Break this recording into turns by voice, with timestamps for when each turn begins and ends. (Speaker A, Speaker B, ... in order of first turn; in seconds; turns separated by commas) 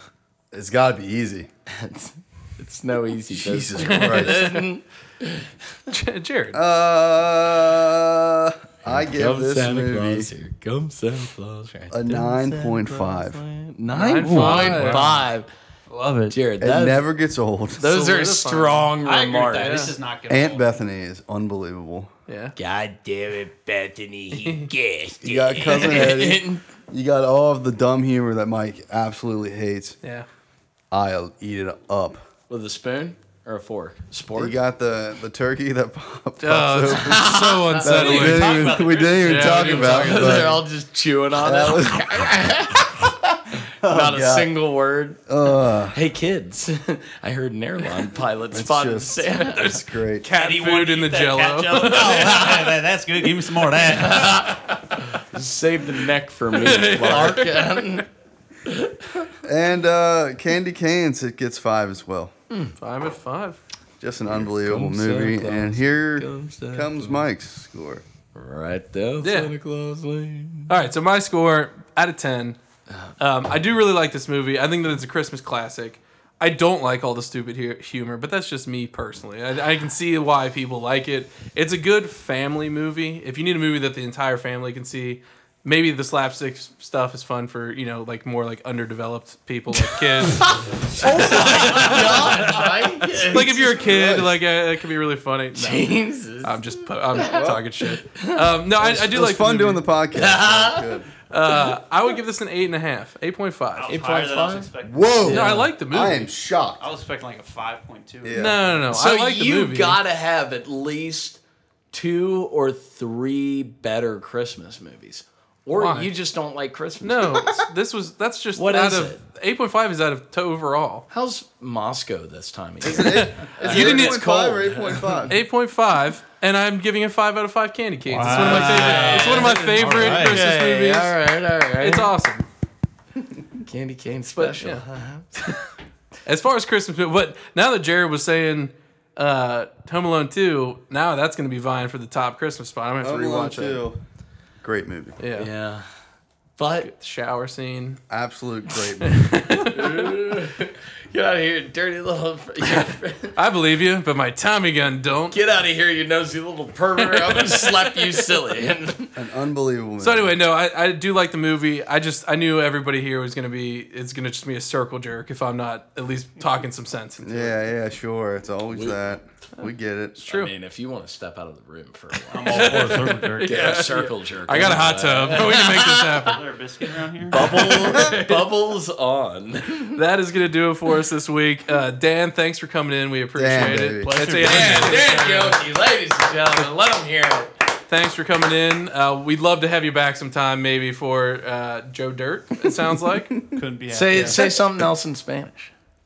Speaker A: 0.5-1.5, Speaker B: 1.6-5.5, Speaker A: 3.3-4.4, Speaker C: 3.8-4.6, Speaker C: 5.9-6.6, Speaker A: 6.5-10.3, Speaker B: 8.9-15.5, Speaker A: 11.9-13.4, Speaker C: 13.9-15.1, Speaker D: 14.2-15.2, Speaker D: 15.9-16.4, Speaker B: 16.3-17.0, Speaker A: 16.6-17.9, Speaker B: 17.8-19.9, Speaker C: 17.8-18.9, Speaker D: 19.0-20.7, Speaker C: 19.6-19.9, Speaker A: 20.3-22.1, Speaker C: 22.3-22.5, Speaker B: 22.6-26.6, Speaker C: 24.4-24.7, Speaker A: 25.2-30.0, Speaker A: 30.9-32.2, Speaker B: 32.5-34.6, Speaker A: 34.4-40.6, Speaker C: 36.4-40.5, Speaker B: 36.9-37.8, Speaker D: 37.9-40.3, Speaker B: 39.6-43.1, Speaker A: 41.4-42.4, Speaker A: 43.8-44.5, Speaker B: 43.8-45.2, Speaker A: 45.3-46.0, Speaker B: 45.9-49.8, Speaker A: 48.5-50.2, Speaker C: 49.5-52.7, Speaker D: 50.3-54.5, Speaker B: 53.9-58.1, Speaker C: 56.5-57.8, Speaker B: 58.7-59.2, Speaker A: 59.4-62.3, Speaker C: 62.8-63.6, Speaker A: 64.0-68.0, Speaker B: 64.2-67.2, Speaker B: 68.3-70.7, Speaker C: 69.2-69.5, Speaker C: 70.7-72.6, Speaker C: 73.2-92.6, Speaker B: 89.8-93.6, Speaker D: 91.2-91.9, Speaker C: 93.3-99.8, Speaker A: 93.3-94.3, Speaker B: 95.5-96.6, Speaker B: 97.1-98.5, Speaker A: 97.3-97.6, Speaker A: 98.8-101.1, Speaker B: 100.1-101.0, Speaker C: 101.3-103.9, Speaker D: 103.7-105.5, Speaker B: 103.9-105.7, Speaker A: 104.8-106.8, Speaker C: 105.3-106.3, Speaker D: 106.8-108.8, Speaker A: 108.2-108.6, Speaker C: 108.3-110.0, Speaker B: 108.9-111.4, Speaker B: 111.9-117.6, Speaker C: 115.8-116.1, Speaker C: 117.0-121.0, Speaker B: 118.5-119.2, Speaker B: 121.1-125.3, Speaker A: 122.8-125.4, Speaker C: 122.9-124.2, Speaker C: 125.3-131.2, Speaker D: 128.1-130.4, Speaker B: 128.2-132.1, Speaker C: 131.8-132.4, Speaker B: 133.7-135.6, Speaker C: 134.3-134.8, Speaker C: 136.2-143.8, Speaker A: 143.0-144.0, Speaker A: 144.6-145.2, Speaker C: 145.2-145.5, Speaker B: 145.3-145.9, Speaker B: 146.6-146.9, Speaker C: 146.8-148.0, Speaker A: 148.1-149.2, Speaker C: 149.0-150.2, Speaker B: 149.6-153.4, Speaker C: 153.3-155.3, Speaker B: 155.3-159.2, Speaker C: 157.0-158.2, Speaker A: 159.2-160.4, Speaker C: 160.0-167.5, Speaker A: 167.2-170.2, Speaker B: 168.7-169.0, Speaker C: 170.2-170.5, Speaker B: 170.3-172.9, Speaker D: 172.3-173.7, Speaker C: 172.3-176.4, Speaker B: 173.4-176.3, Speaker D: 176.2-177.4, Speaker B: 177.3-180.0, Speaker C: 177.3-178.5, Speaker C: 179.9-185.6, Speaker A: 183.3-184.2, Speaker D: 183.6-185.5, Speaker B: 184.4-187.5, Speaker C: 187.9-193.3, Speaker D: 193.5-194.5, Speaker B: 193.9-195.7, Speaker C: 194.1-194.3